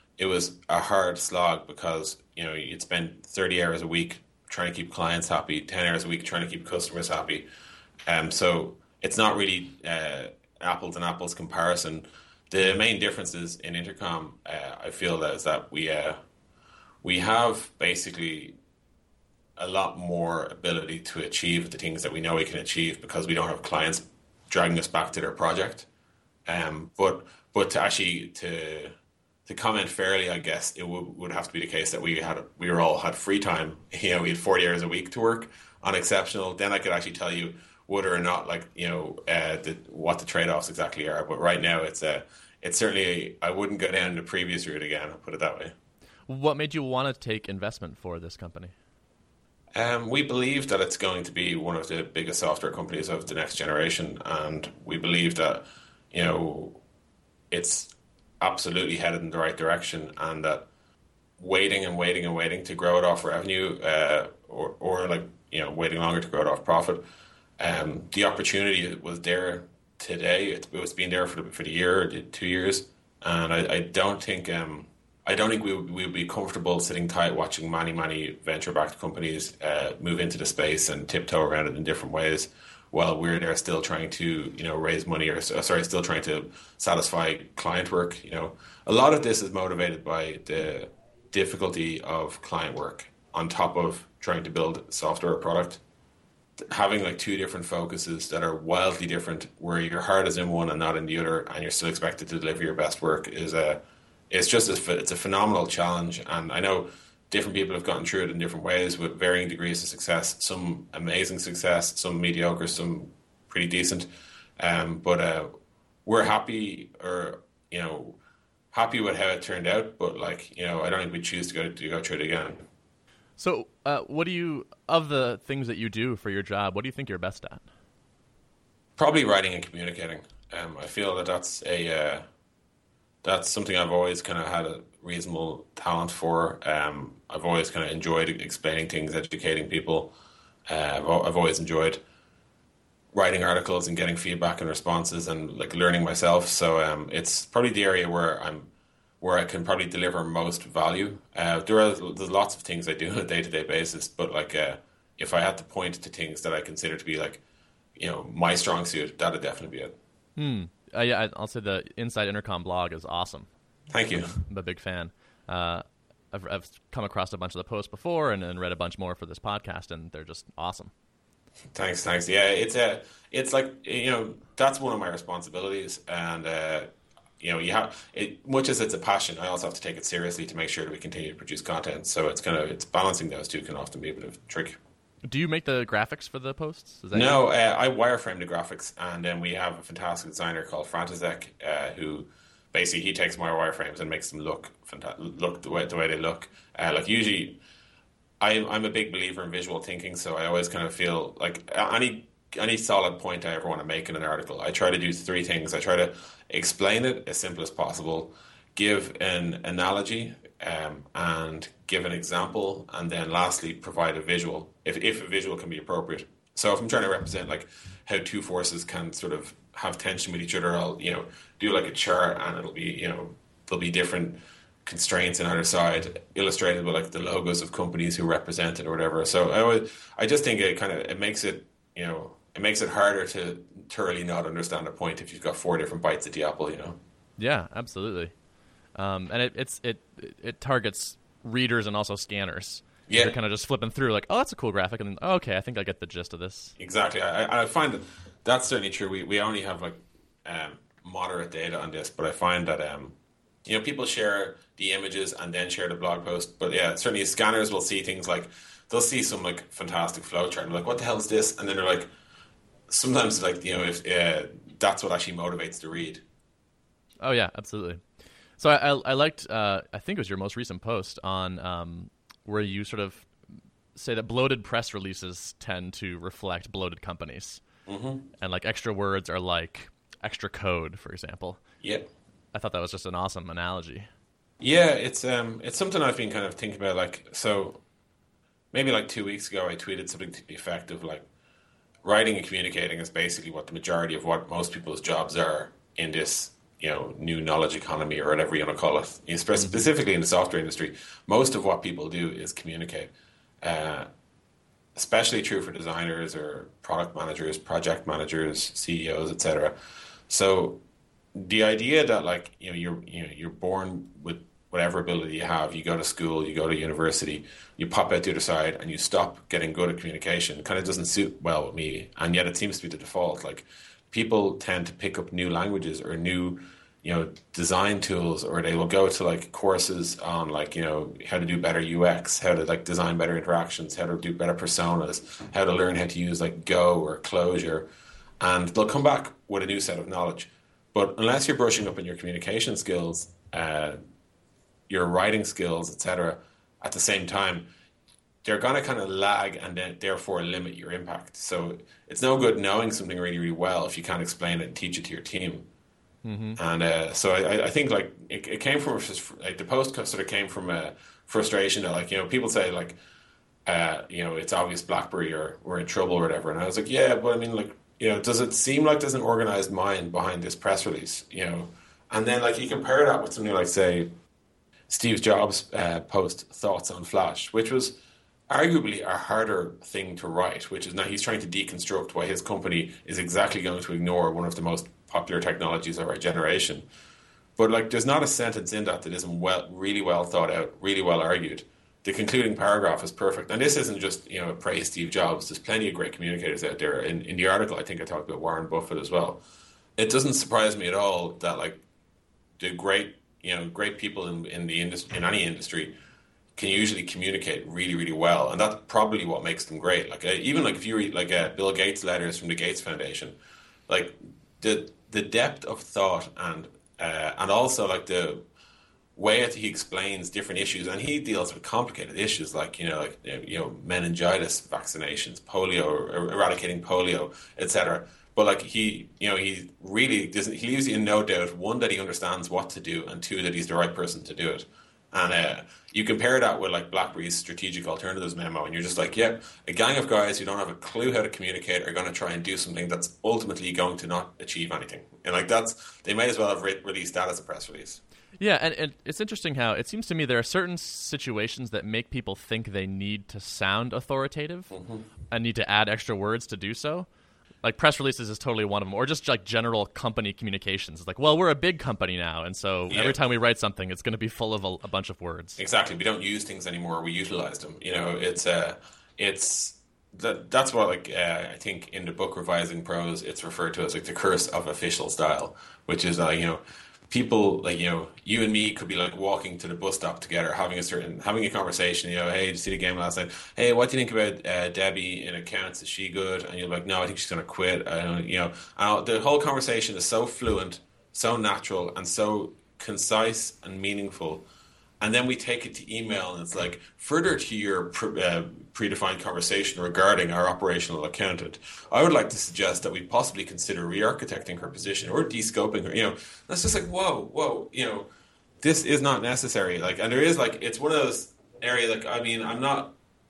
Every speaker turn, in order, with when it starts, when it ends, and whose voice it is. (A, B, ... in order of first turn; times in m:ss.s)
0:00.2-0:07.5 A
0:08.1-0:16.2 A
0:17.0-0:18.6 A
0:19.6-0:25.9 A
0:26.5-0:28.9 A
0:29.5-0:45.8 A
0:46.3-0:48.7 B
0:49.8-0:56.8 A
0:57.5-1:00.7 A
1:01.4-1:07.0 A
1:07.6-1:35.8 A
1:36.6-1:55.5 A
1:56.0-1:58.2 A
1:58.7-2:02.6 A
2:03.4-2:07.6 B
2:09.0-2:12.2 A
2:13.2-2:20.1 A
2:20.7-2:22.0 A
2:23.1-2:28.7 A
2:29.2-2:37.4 A
2:38.0-2:40.0 A
2:40.4-2:43.5 B
2:43.9-2:44.4 A
2:44.5-2:50.9 B
2:51.7-2:56.9 A
2:57.4-3:04.8 A
3:05.2-3:07.4 B
3:07.1-3:17.6 A
3:18.4-3:57.0 A
3:57.4-3:58.3 B
3:59.0-4:06.8 B
4:03.1-4:03.4 A
4:06.8-4:22.1 A
4:22.9-4:26.2 A
4:27.2-4:28.0 B
4:28.6-4:33.3 B
4:34.0-4:37.6 B
4:37.9-4:38.3 A
4:38.4-4:41.6 B
4:41.8-4:42.1 A
4:42.5-4:44.1 B
4:44.6-4:47.8 A
4:48.7-4:51.2 A
4:52.0-5:03.1 A
4:59.6-4:59.9 B
5:03.6-5:04.1 A
5:05.0-5:09.8 A
5:10.3-5:10.8 A
5:11.3-5:37.9 A
5:38.4-5:44.0 A
5:44.9-5:47.7 A
5:48.4-5:55.7 A
5:56.2-5:56.6 B
5:56.6-6:03.0 A
6:03.7-6:14.1 A
6:14.9-6:18.0 A
6:18.5-6:26.9 A
6:27.6-6:39.4 A
6:40.0-6:41.8 A
6:42.6-6:46.0 A
6:46.6-6:53.4 A
6:53.9-6:58.4 A
6:59.2-7:28.0 A
7:28.4-7:34.7 B
7:34.7-7:35.0 A
7:35.3-7:37.1 B
7:37.6-7:45.6 B
7:42.9-7:43.2 A
7:45.6-8:14.4 A
8:15.0-8:28.1 A
8:28.6-8:33.0 A